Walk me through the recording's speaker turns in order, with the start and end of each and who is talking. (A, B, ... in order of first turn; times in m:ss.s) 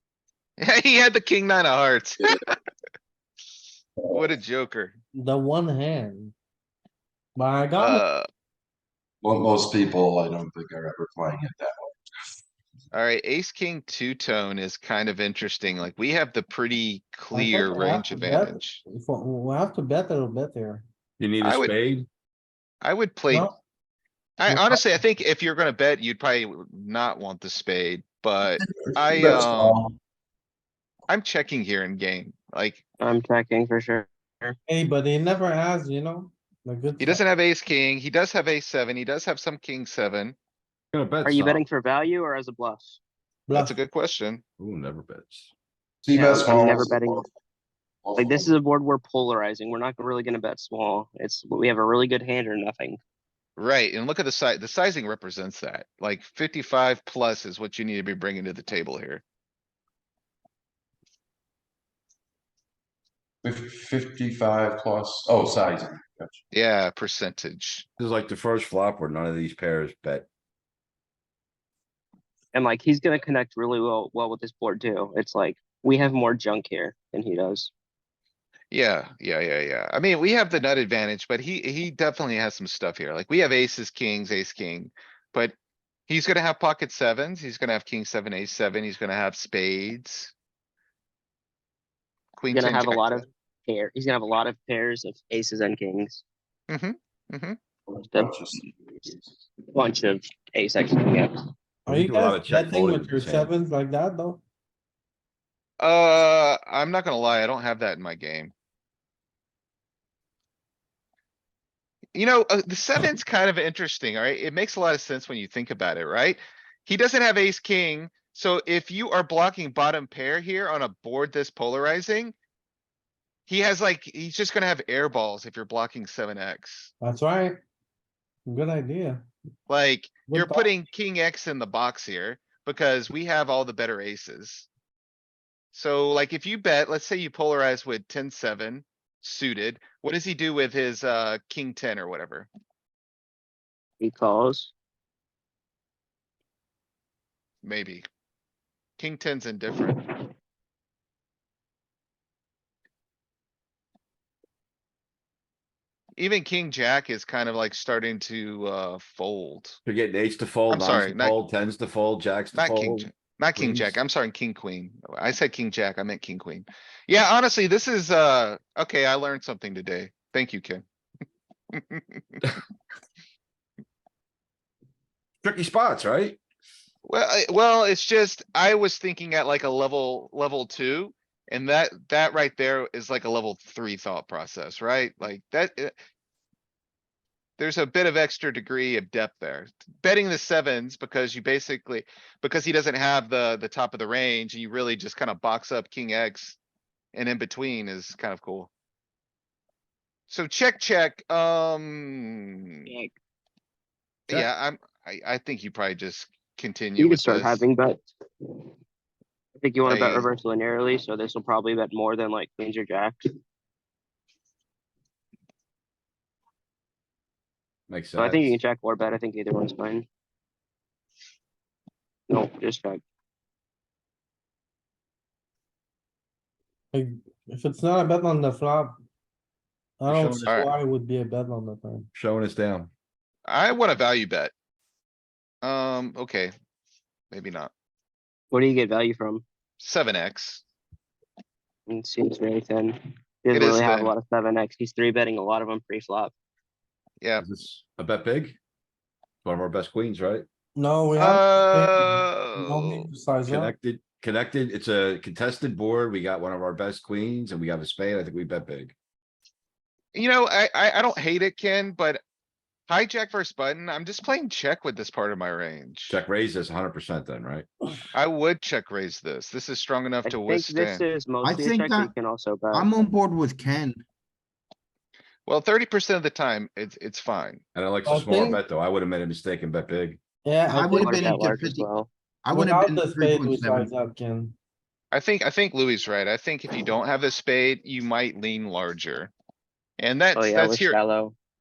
0:00.6-0:02.5 A
0:04.1-0:05.0 A
0:05.1-0:06.3 B
0:07.4-0:08.0 B
0:07.8-0:08.3 A
0:09.2-0:12.0 C
0:12.9-0:18.8 A
0:17.3-0:20.8 B
0:21.2-0:22.1 D
0:21.4-0:21.7 A
0:22.8-0:23.5 A
0:23.3-0:23.6 B
0:24.4-0:29.8 A
0:24.5-0:24.9 B
0:28.7-0:29.9 C
0:31.1-0:32.8 A
0:33.0-0:34.6 E
0:34.7-0:37.2 B
0:37.0-0:40.4 A
0:40.9-0:41.6 D
0:41.2-0:43.0 E
0:43.5-0:43.8 B
0:43.5-0:44.4 A
0:44.6-0:45.5 D
0:46.0-0:47.3 C
0:46.1-0:47.3 E
0:48.0-0:48.5 C
0:48.2-0:53.0 E
0:53.6-0:59.2 A
1:03.4-1:06.4 C
1:06.5-1:07.8 A
1:08.0-1:10.3 D
1:12.5-1:17.7 E
1:18.7-1:25.5 A
1:26.1-1:30.3 A
1:32.4-1:33.2 A
1:32.5-1:36.2 E
1:36.7-1:37.6 A
1:37.9-1:39.2 C
1:38.0-1:38.4 E
1:39.7-1:41.4 E
1:41.8-1:44.4 B
1:41.9-1:43.5 D
1:45.8-1:48.5 A
1:52.1-2:02.3 A
2:03.5-2:06.9 A
2:07.0-2:07.6 B
2:08.4-2:09.2 B
2:09.7-2:14.7 A
2:10.3-2:10.7 B
2:15.7-2:22.5 A
2:24.0-2:24.7 E
2:27.6-2:28.0 A
2:29.0-2:29.9 A
2:36.2-2:39.8 A
2:39.8-2:43.9 D
2:40.7-2:41.3 A
2:42.5-2:50.8 A
2:51.7-2:52.2 A
2:55.4-2:56.4 D
2:57.0-3:05.9 A
3:07.6-3:16.6 A
3:17.1-3:18.7 A
3:20.3-3:22.9 A
3:22.9-3:23.1 E
3:24.3-3:27.6 A
3:27.0-3:28.6 E
3:29.6-3:33.3 E
3:29.9-3:30.3 A
3:37.9-3:38.6 D
3:38.2-3:40.0 E
3:42.3-3:43.0 E
3:46.9-3:48.9 B
3:50.0-3:52.1 B
3:50.1-3:50.5 D
3:50.2-3:50.7 A
3:52.1-3:52.9 D
3:53.5-3:54.5 A
3:55.6-3:56.5 A
3:57.3-3:57.7 A
3:58.5-3:59.4 E
3:59.8-4:00.6 A
4:01.9-4:06.3 E
4:03.5-4:04.1 A
4:07.4-4:08.6 D
4:09.4-4:10.4 D
4:10.8-4:13.7 B
4:11.2-4:13.1 A
4:13.5-4:18.9 D
4:20.1-4:22.2 A
4:22.9-4:26.2 A
4:26.1-4:27.7 D
4:28.1-4:31.0 A
4:30.2-4:32.9 E
4:31.4-4:32.1 F
4:32.7-4:34.0 F
4:35.5-4:37.6 A
4:37.7-4:40.2 D
4:38.0-4:38.6 B
4:40.4-4:41.2 B
4:40.7-4:41.9 F
4:40.9-4:42.1 E
4:42.4-4:43.9 F
4:42.5-4:44.5 B
4:45.1-4:49.3 A
4:50.0-4:51.0 A
4:50.3-4:51.4 E